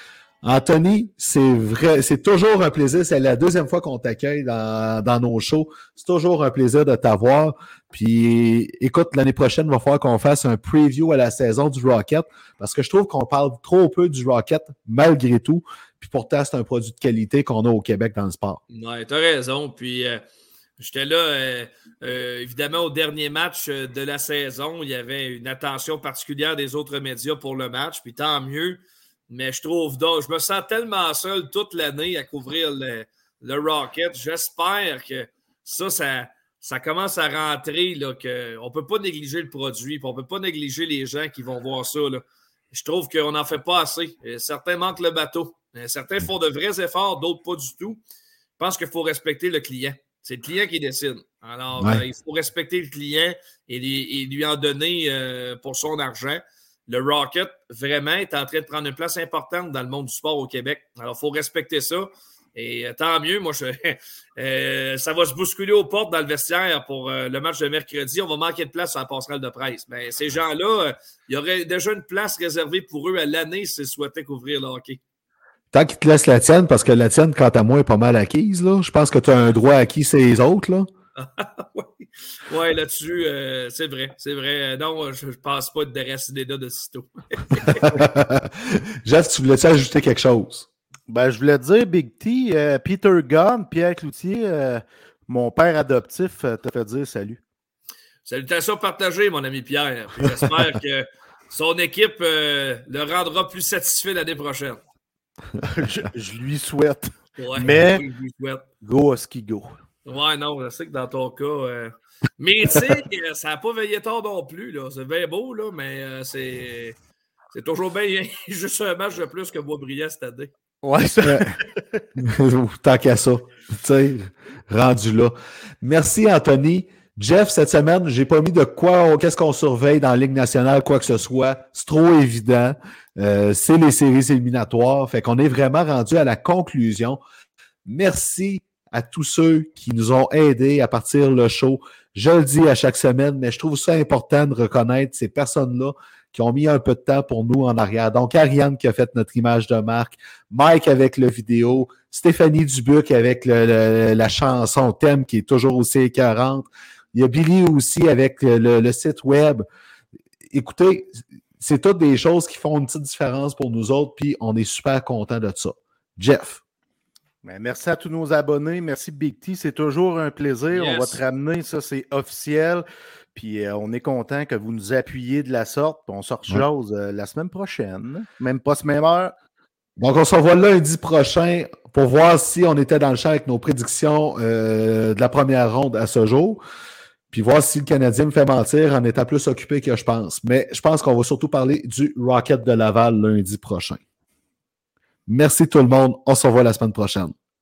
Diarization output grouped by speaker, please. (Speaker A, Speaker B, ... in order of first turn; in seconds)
Speaker A: 0.4-18.6, 51.8-52.0, 75.7-80.9, 87.7-90.7, 122.2-137.2, 137.8-159.6, 160.5-166.6, 180.0-186.6, 187.3-194.0, 195.3-197.3
Speaker B: 18.7-20.2, 20.8-48.0, 48.6-75.0, 81.2-88.0, 98.2-104.8, 107.4-108.7, 110.0-117.0, 117.5-120.5, 170.7-171.2
Speaker C: 91.1-97.4, 105.6-108.0, 108.8-109.7, 120.8-121.6, 167.4-179.3